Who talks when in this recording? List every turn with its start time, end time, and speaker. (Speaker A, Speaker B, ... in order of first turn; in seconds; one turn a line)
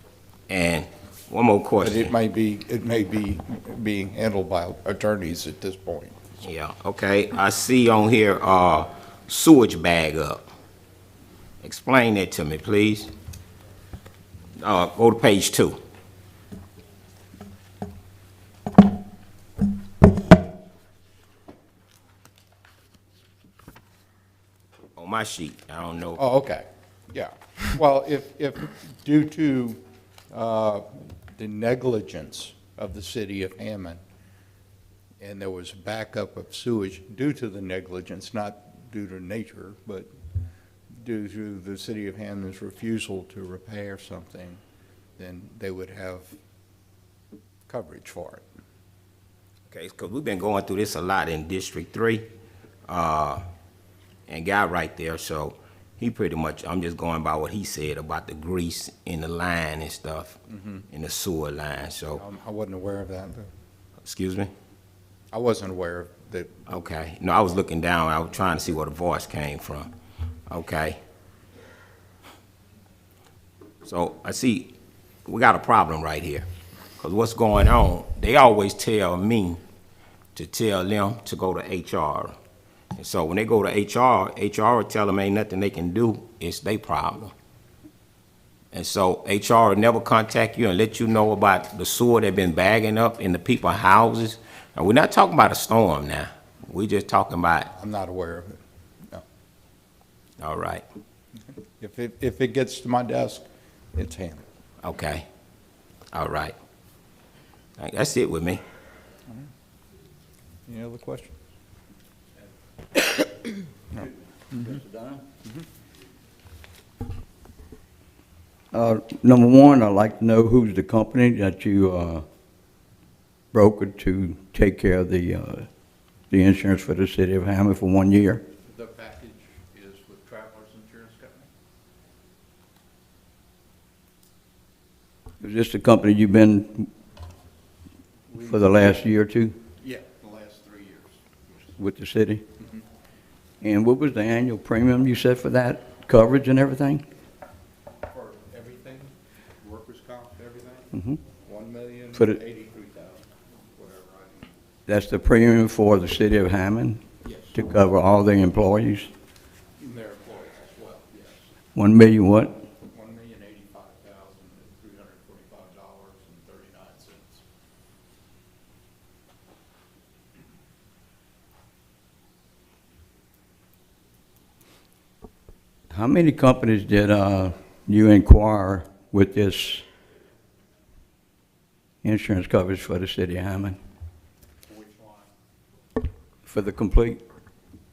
Speaker A: 0.5-2.1
Speaker B: 1.8-6.2
Speaker A: 6.4-10.4
Speaker A: 11.6-13.1
Speaker A: 14.6-15.8
Speaker A: 25.0-26.2
Speaker B: 26.2-34.0
Speaker B: 35.2-40.1
Speaker B: 41.0-44.6
Speaker B: 45.2-46.4
Speaker B: 47.7-48.5
Speaker A: 49.7-52.3
Speaker A: 52.9-53.4
Speaker A: 54.3-60.4
Speaker B: 60.5-60.9
Speaker A: 60.9-62.2
Speaker B: 62.1-63.5
Speaker A: 64.0-64.5
Speaker B: 65.3-66.5
Speaker A: 66.7-69.9
Speaker A: 70.5-71.0
Speaker A: 73.8-74.7
Speaker A: 75.3-76.5
Speaker A: 77.0-79.6
Speaker A: 80.3-82.3
Speaker A: 83.0-87.3
Speaker A: 88.7-97.7
Speaker B: 97.7-98.5
Speaker A: 100.4-100.8
Speaker B: 101.8-104.5
Speaker A: 104.8-105.3
Speaker A: 106.1-106.5
Speaker A: 107.8-108.6
Speaker B: 110.7-111.4
Speaker B: 113.9-114.8
Speaker C: 113.9-115.3
Speaker C: 118.7-122.2
Speaker C: 123.5-125.7
Speaker C: 126.3-128.4
Speaker B: 128.6-131.5
Speaker C: 135.4-136.9
Speaker B: 138.3-139.1
Speaker C: 138.4-139.6
Speaker B: 139.8-141.7
Speaker C: 141.8-142.4
Speaker C: 143.6-147.0
Speaker B: 148.1-154.5
Speaker C: 150.9-151.2
Speaker C: 154.9-157.0
Speaker B: 157.2-157.6
Speaker C: 157.5-159.1
Speaker B: 159.8-161.5
Speaker C: 161.8-162.6
Speaker B: 162.8-167.4
Speaker C: 175.9-179.8
Speaker C: 182.0-183.8
Speaker B: 184.7-185.3
Speaker C: 186.5-187.2